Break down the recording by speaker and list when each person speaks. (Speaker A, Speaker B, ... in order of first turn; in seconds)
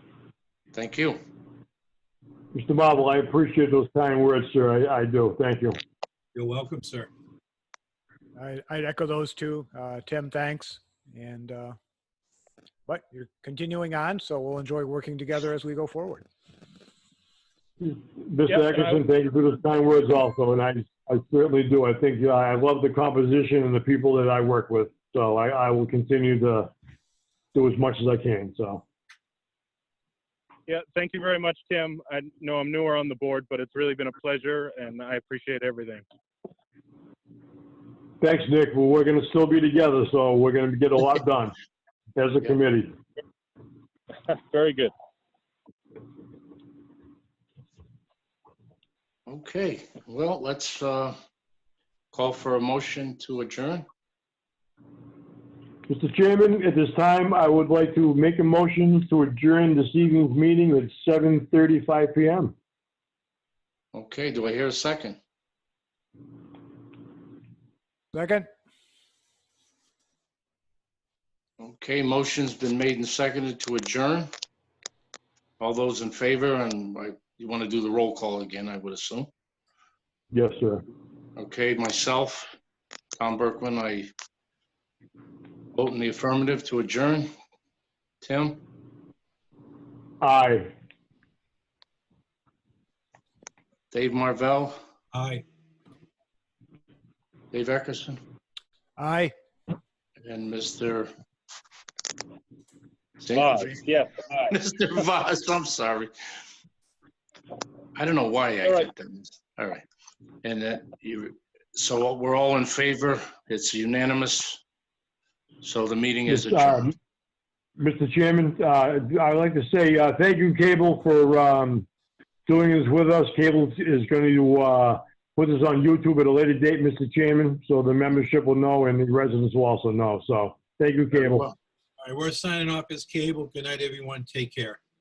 Speaker A: 0.7-1.2, 49.3-51.1, 52.1-53.9, 63.9-65.2, 71.6-74.3, 75.6-79.3, 81.3-82.5, 83.2-84.1, 85.7-87.3, 88.2-88.6, 93.9-94.8, 97.5-98.2, 100.2-101.1, 103.2-106.1, 107.9-109.8, 110.4-114.6, 115.6-116.8
Speaker B: 2.5-5.8, 17.8-26.7, 27.5-28.8, 38.2-41.5, 42.1-42.9, 55.9-62.5, 80.3-80.8, 90.2-90.7, 116.3-117.0, 117.8-121.9, 122.5-131.5
Speaker C: 6.3-7.1, 95.1-95.4, 132.0-134.8
Speaker D: 8.3-11.8, 12.8-16.2, 68.1-68.5, 99.0-99.3
Speaker E: 18.4-19.0, 30.7-36.0, 44.2-44.9, 103.3-104.5, 108.6-108.9